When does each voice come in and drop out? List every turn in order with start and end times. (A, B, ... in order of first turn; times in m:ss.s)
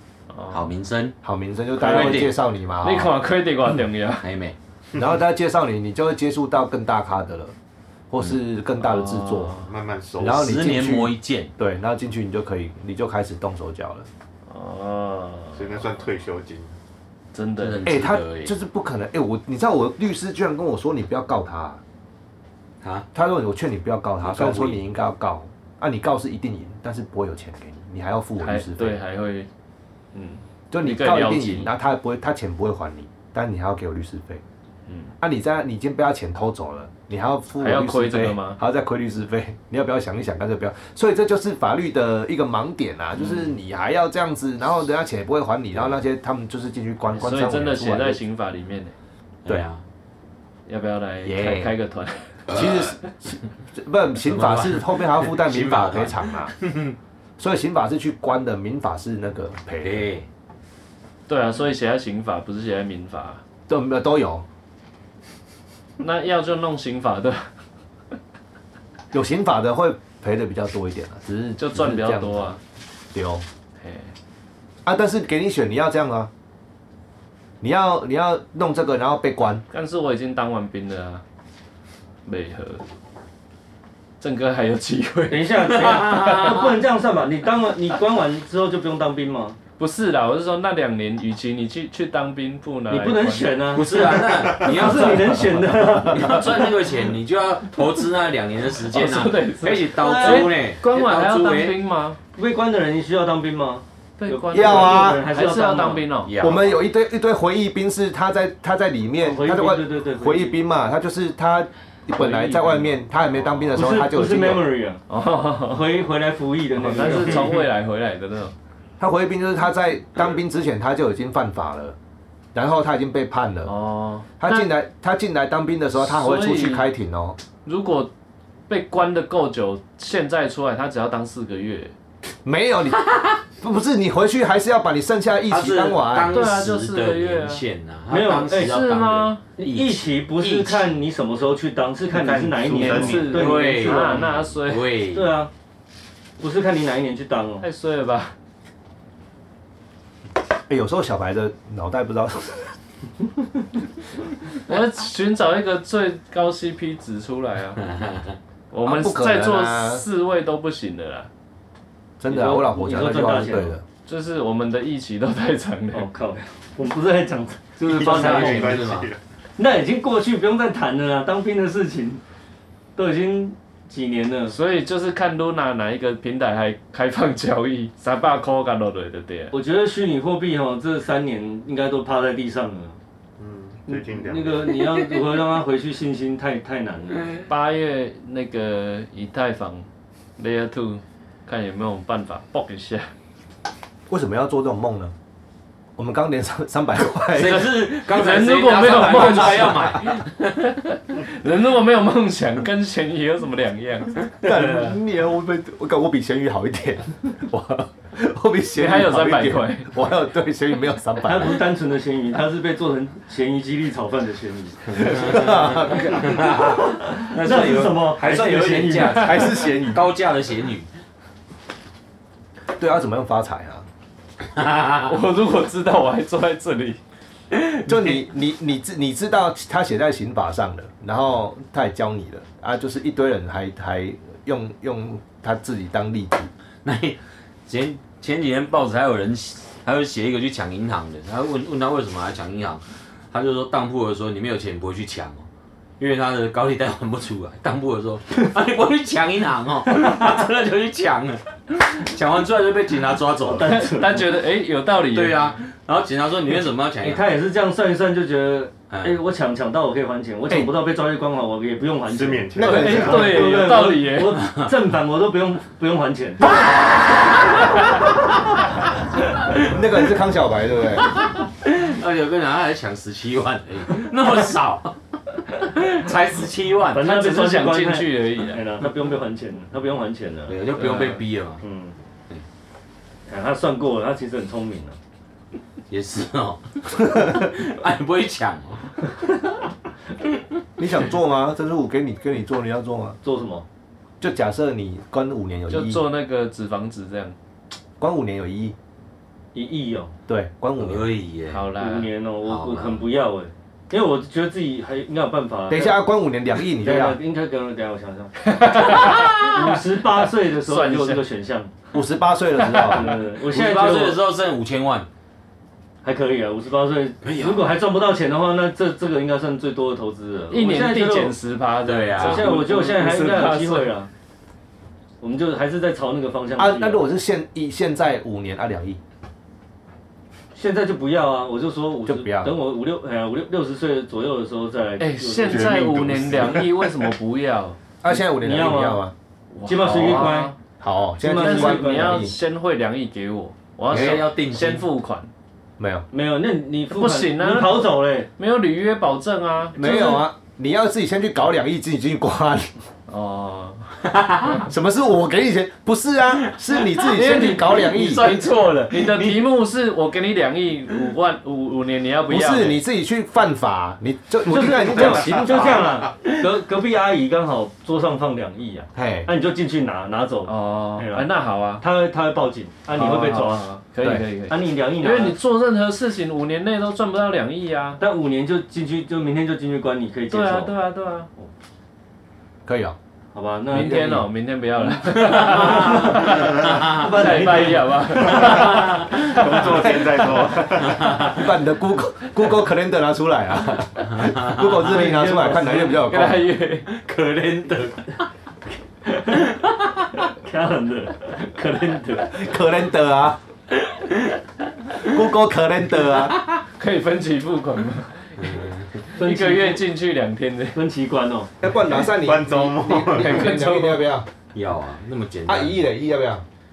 0:00.3-0:00.6 A
0:00.5-0:01.2 B
0:01.2-0:03.1 C
0:01.8-0:02.4 B
0:01.9-0:02.2 A
0:02.8-0:04.3 A
0:04.2-0:04.6 B
0:05.0-0:07.5 C
0:08.1-0:09.6 C
0:08.8-0:09.7 A
0:09.6-0:10.5 D
0:10.2-0:14.1 C
0:10.2-0:11.5 B
0:14.5-0:15.8 A
0:15.6-0:16.8 D
0:17.3-0:17.9 A
0:17.6-0:18.6 B
0:17.9-0:21.8 C
0:22.8-0:23.1 B
0:23.1-0:29.0 C
0:24.2-0:24.8 B
0:28.4-0:29.5 A
0:30.1-0:31.7 A
0:30.7-0:34.4 C
0:34.9-0:35.1 A
0:35.2-0:48.2 C
0:37.6-0:38.6 A
0:47.2-0:48.9 A
0:49.4-0:49.8 B
0:50.7-0:52.6 A
0:51.2-0:51.7 C
0:52.5-0:56.5 C
0:54.2-0:57.0 B
0:57.4-1:00.1 C
0:59.8-1:00.3 B
1:01.3-1:03.4 A
1:03.7-1:04.4 C
1:06.0-1:07.5 A
1:09.1-1:12.6 C
1:11.6-1:12.6 A
1:13.1-1:13.4 C
1:13.8-1:14.1 A
1:14.8-1:16.3 C
1:17.6-1:19.6 C
1:19.7-1:21.2 A
1:22.2-1:22.8 A
1:24.2-1:26.5 A
1:25.3-1:29.6 E
1:25.6-1:26.8 B
1:29.8-1:33.6 A
1:32.9-1:36.6 E
1:33.7-1:41.8 B
1:38.8-1:42.2 A
1:40.0-1:40.5 E
1:42.4-1:46.1 E
1:44.2-1:46.4 A
1:44.5-1:45.3 C
1:46.2-1:46.7 B
1:46.4-1:54.7 C
1:49.2-1:50.6 E
1:52.1-1:53.0 A
1:53.8-1:55.0 E
1:55.1-1:55.8 A
1:55.7-1:57.7 E
1:56.8-1:58.5 A
1:59.0-2:02.0 C
2:02.5-2:03.7 C
2:03.6-2:04.7 A
2:04.4-2:07.4 C
2:06.0-2:06.9 A
2:07.6-2:08.1 A
2:08.7-2:11.9 A
2:12.4-2:13.0 C
2:13.0-2:13.4 B
2:13.5-2:16.4 C
2:15.5-2:21.0 B
2:16.3-2:17.6 A
2:18.1-2:18.8 E
2:18.5-2:19.5 A
2:19.6-2:24.3 E
2:22.2-2:23.2 D
2:22.3-2:24.9 A
2:22.6-2:25.4 B
2:25.1-2:25.5 E
2:26.4-2:27.7 E
2:27.6-2:28.3 A
2:30.7-2:32.8 C
2:34.7-2:37.9 A
2:37.8-2:38.4 B
2:38.7-2:41.3 A
2:38.8-2:40.0 C
2:42.2-2:43.8 C
2:42.3-2:43.8 E
2:44.1-2:46.1 A
2:45.9-2:48.8 E
2:47.8-2:49.1 B
2:47.9-2:49.2 D
2:49.6-2:52.2 E
2:53.0-2:54.6 E
2:54.5-2:59.5 A
2:59.5-3:03.0 E
3:03.4-3:04.9 D
3:03.9-3:07.4 E
3:07.5-3:09.9 A
3:10.4-3:13.1 A
3:14.1-3:15.1 C
3:16.0-3:17.6 C
3:17.3-3:20.7 B
3:17.4-3:24.4 A
3:24.4-3:31.6 C
3:28.8-3:29.9 A
3:31.2-3:35.5 E
3:34.9-3:40.9 B
3:35.0-3:36.6 C
3:36.7-3:39.3 E
3:38.6-3:40.1 C
3:42.8-3:43.8 C
3:44.5-3:45.2 B
3:45.1-3:47.0 A
3:47.9-3:56.5 C
3:56.8-4:05.4 B
4:06.0-4:13.8 B
4:13.4-4:14.3 E
4:13.6-4:15.5 A
4:15.1-4:17.3 B
4:17.0-4:26.4 E
4:18.9-4:19.2 B
4:20.5-4:20.7 C
4:22.1-4:23.4 D
4:22.6-4:23.6 C
4:22.6-4:24.4 A
4:24.4-4:24.7 B
4:29.6-4:31.1 C
4:31.6-4:35.0 B
4:35.6-4:37.1 B
4:36.9-4:40.6 E
4:37.0-4:38.8 A
4:40.5-4:41.6 B
4:40.8-4:41.2 A
4:41.6-4:42.0 E
4:43.3-4:45.0 E
4:45.9-4:48.9 B
4:50.8-4:53.2 C
4:53.2-4:53.6 E
4:54.2-4:56.0 C
4:55.7-4:57.4 A
4:58.0-4:58.8 C
4:59.5-5:00.1 E
5:00.3-5:01.1 C
5:00.8-5:01.7 B
5:01.5-5:02.1 A
5:01.8-5:06.0 E
5:02.4-5:03.0 B
5:05.7-5:07.2 C
5:06.8-5:11.7 E
5:08.4-5:09.5 A
5:09.0-5:09.3 B
5:10.5-5:11.3 A
5:11.9-5:13.2 C
5:12.6-5:13.1 A
5:12.9-5:14.2 E
5:13.4-5:15.1 B
5:16.0-5:21.4 E
5:17.2-5:17.7 B
5:20.5-5:23.9 A
5:21.8-5:22.6 B
5:22.2-5:24.1 E
5:25.2-5:27.0 E
5:26.6-5:29.0 C
5:30.5-5:35.9 E
5:32.0-5:32.6 C
5:35.0-5:37.8 A
5:35.4-5:37.1 D
5:38.0-5:39.1 C
5:38.2-5:39.0 E
5:39.5-5:40.6 A
5:39.6-5:40.5 E
5:40.8-5:42.4 C
5:41.2-5:42.4 E
5:41.3-5:45.3 A
5:43.9-5:44.8 B
5:45.8-5:46.1 C
5:46.1-5:48.3 E
5:46.9-5:49.9 A
5:49.8-5:52.7 C
5:49.8-5:50.2 E
5:53.1-5:54.0 A
5:54.0-5:54.6 B
5:54.6-5:58.3 C
5:57.0-6:02.8 A
5:57.3-5:59.4 B
6:02.3-6:05.9 C
6:04.5-6:11.3 E
6:09.0-6:09.3 C
6:10.4-6:11.8 A
6:11.8-6:13.8 E
6:12.9-6:18.0 A
6:14.0-6:14.3 C
6:14.5-6:15.4 E
6:18.0-6:20.8 E
6:20.3-6:21.3 A
6:22.7-6:23.0 C
6:23.3-6:24.3 E
6:23.7-6:30.0 A
6:25.1-6:27.4 B
6:25.5-6:28.7 E
6:28.4-6:29.4 B
6:28.8-6:31.0 D
6:29.6-6:36.5 C
6:30.8-6:31.5 B
6:34.0-6:34.7 B
6:34.7-6:36.0 E
6:36.0-6:36.9 A
6:36.9-6:38.2 B
6:39.1-6:39.4 E
6:39.4-6:40.2 B
6:40.3-6:42.4 E
6:42.2-6:43.4 C
6:43.8-6:44.4 B
6:45.0-6:46.4 C
6:46.8-6:50.8 A
6:48.4-6:49.0 B
6:49.2-6:49.9 E
6:50.7-6:51.5 E
6:51.6-6:54.3 C
6:52.0-6:53.5 D
6:53.2-6:54.1 A
6:54.5-6:55.8 B
6:55.5-6:56.4 C